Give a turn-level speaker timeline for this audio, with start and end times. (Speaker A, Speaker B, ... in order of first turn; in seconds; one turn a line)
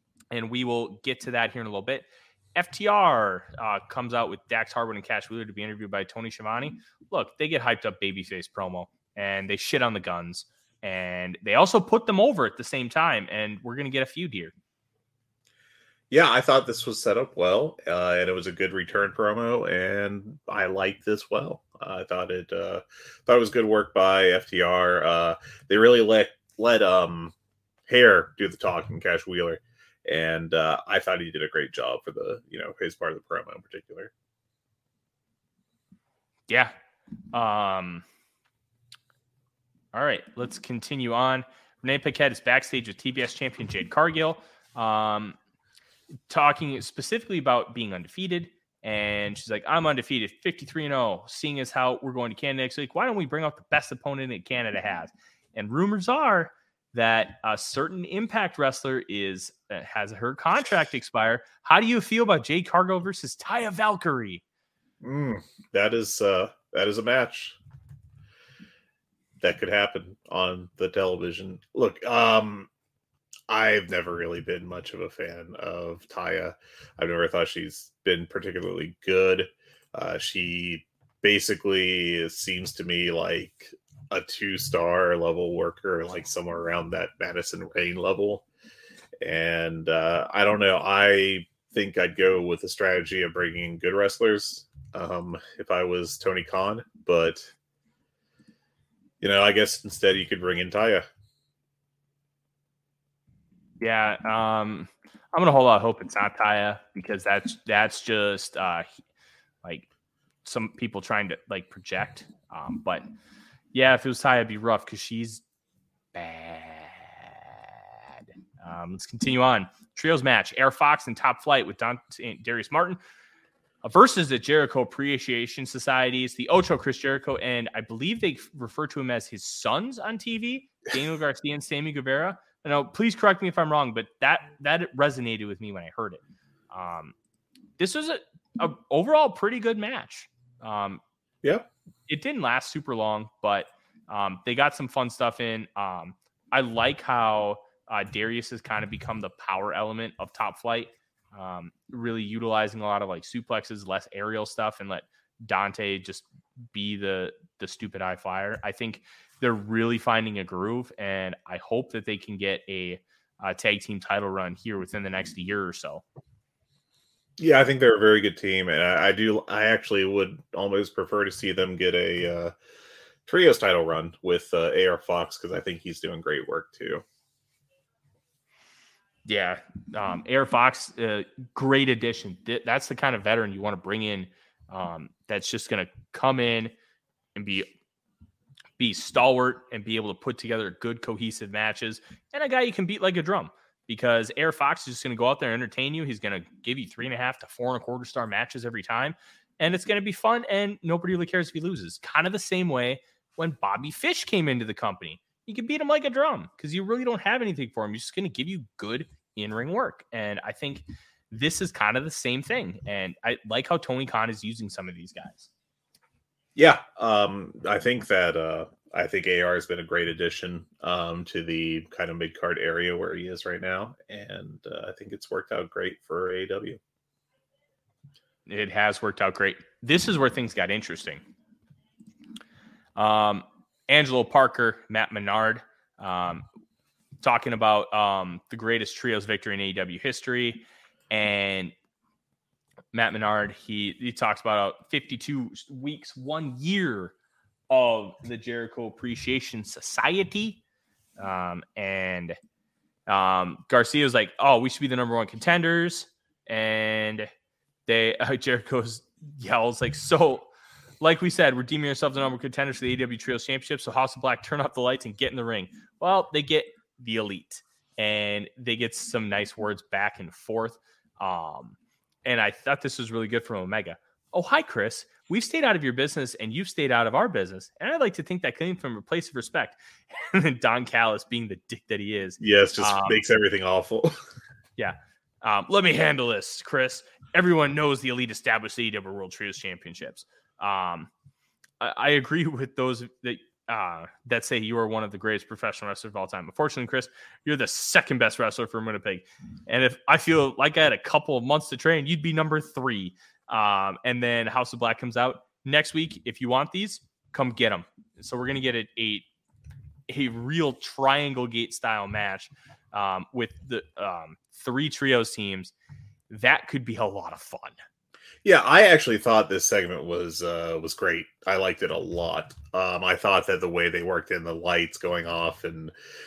Speaker A: 0.3-14.5
Speaker B: 16.1-27.3
Speaker B: 27.9-34.1
Speaker A: 36.5-36.7
Speaker A: 37.3-38.0
Speaker A: 39.9-45.4
Speaker A: 46.3-64.4
Speaker B: 65.0-67.5
Speaker B: 69.4-72.7
Speaker B: 73.5-88.4
Speaker B: 89.2-97.5
Speaker B: 99.2-101.0
Speaker A: 103.8-108.9
Speaker A: 110.4-113.0
Speaker A: 113.7-115.4
Speaker A: 116.1-117.3
Speaker A: 118.2-123.0
Speaker A: 123.8-137.1
Speaker A: 137.8-141.0
Speaker A: 142.1-166.0
Speaker B: 167.4-172.5
Speaker B: 173.2-177.0
Speaker A: 179.2-186.7
Speaker A: 187.3-187.7
Speaker A: 188.8-215.5
Speaker B: 216.6-226.8
Speaker A: 228.5-231.2
Speaker A: 232.9-236.4
Speaker A: 237.2-241.7
Speaker A: 242.9-247.1
Speaker A: 247.7-250.6
Speaker A: 251.2-252.4
Speaker A: 253.1-257.3
Speaker A: 257.9-260.5
Speaker A: 261.0-283.2
Speaker B: 282.4-284.2
Speaker A: 284.8-291.1
Speaker A: 291.8-309.2
Speaker A: 310.1-315.7
Speaker A: 316.3-317.8
Speaker B: 318.4-325.9